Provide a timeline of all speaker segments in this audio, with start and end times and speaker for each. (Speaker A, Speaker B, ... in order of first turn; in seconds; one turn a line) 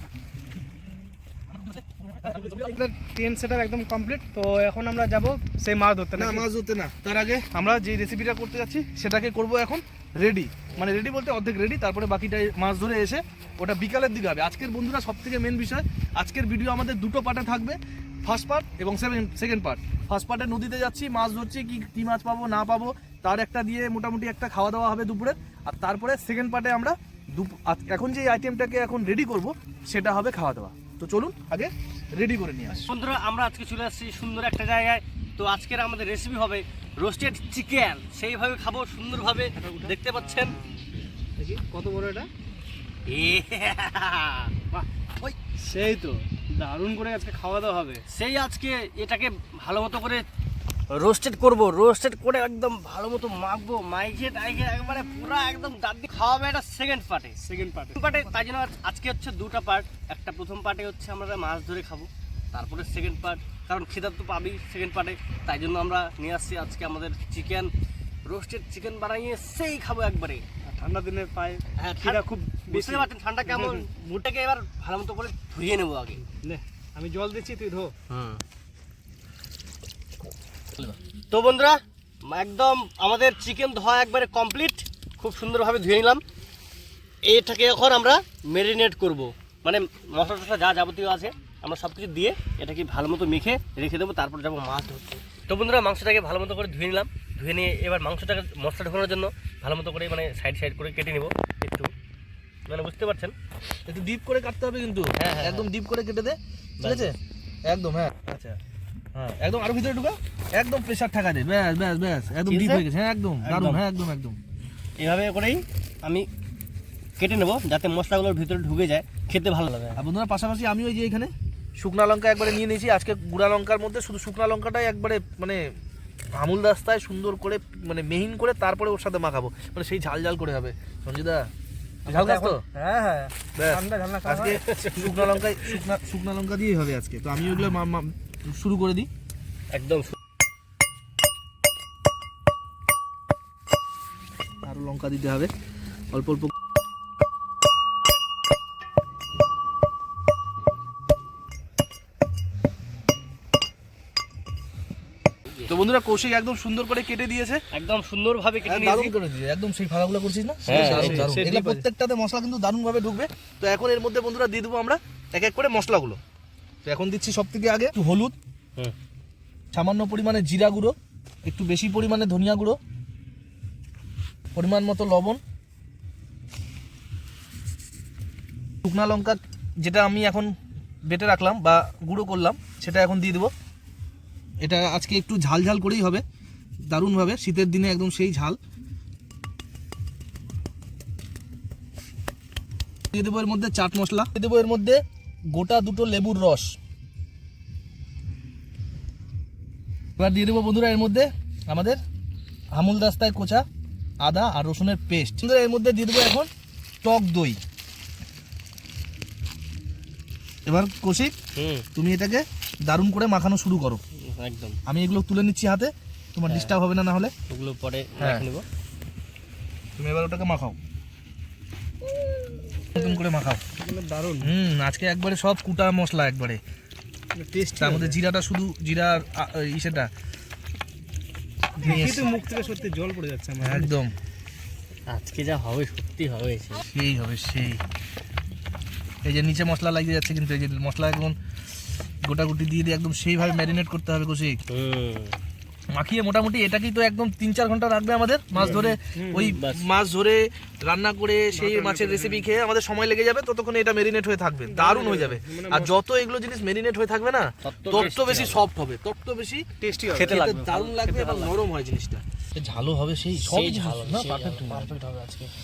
Speaker A: 1.6-2.7
Speaker B: 2.5-6.5
Speaker A: 6.2-32.8
Speaker C: 32.8-40.5
Speaker B: 39.6-40.8
Speaker B: 41.4-42.3
Speaker C: 43.1-44.5
Speaker B: 45.6-48.0
Speaker C: 48.1-50.2
Speaker C: 50.9-57.4
Speaker B: 57.4-58.3
Speaker C: 58.0-67.7
Speaker C: 68.3-70.4
Speaker B: 70.7-73.9
Speaker C: 71.8-76.2
Speaker B: 76.4-77.9
Speaker C: 78.1-78.4
Speaker C: 81.3-86.2
Speaker C: 87.2-101.9
Speaker C: 102.7-103.3
Speaker A: 103.9-108.6
Speaker C: 105.2-105.7
Speaker C: 106.8-107.2
Speaker A: 109.2-114.4
Speaker C: 112.5-112.9
Speaker C: 113.4-113.8
Speaker C: 115.0-116.3
Speaker C: 117.2-120.0
Speaker A: 120.0-125.6
Speaker A: 126.3-131.5
Speaker A: 132.1-132.6
Speaker C: 132.1-133.3
Speaker A: 133.6-139.1
Speaker B: 133.6-134.6
Speaker C: 134.7-135.8
Speaker C: 139.7-140.1
Speaker A: 144.6-145.5
Speaker A: 146.1-146.5
Speaker A: 155.7-157.6
Speaker C: 157.7-159.2
Speaker A: 158.6-166.2
Speaker B: 160.7-161.8
Speaker C: 160.7-161.3
Speaker A: 166.8-168.3
Speaker A: 169.7-170.9
Speaker A: 171.5-172.8
Speaker A: 174.5-175.4
Speaker A: 178.8-180.5
Speaker A: 181.1-183.5
Speaker A: 184.6-186.2
Speaker A: 186.8-188.6
Speaker A: 193.1-196.8
Speaker A: 200.2-202.0
Speaker A: 202.7-203.7
Speaker A: 204.2-206.5
Speaker A: 207.0-207.6
Speaker A: 210.7-211.3
Speaker C: 211.6-211.8
Speaker A: 211.9-214.0
Speaker C: 214.3-214.8
Speaker A: 214.8-217.3
Speaker C: 216.5-216.7
Speaker C: 217.5-218.7
Speaker A: 218.2-218.5
Speaker A: 220.0-220.8
Speaker A: 222.9-223.6
Speaker B: 223.8-224.5
Speaker A: 224.4-226.6
Speaker B: 227.3-228.2
Speaker A: 227.8-230.1
Speaker A: 231.8-232.3
Speaker B: 231.8-233.9
Speaker A: 233.6-234.2
Speaker C: 235.1-236.8
Speaker A: 236.9-237.8
Speaker A: 239.2-241.3
Speaker A: 242.2-244.6
Speaker C: 244.7-245.3
Speaker A: 245.9-259.6
Speaker B: 248.6-249.5
Speaker C: 248.6-248.8
Speaker C: 249.4-249.8
Speaker B: 251.5-252.5
Speaker B: 254.7-255.9
Speaker C: 257.6-258.6
Speaker B: 259.8-261.2
Speaker C: 260.1-261.6
Speaker A: 260.3-265.0
Speaker C: 263.4-265.5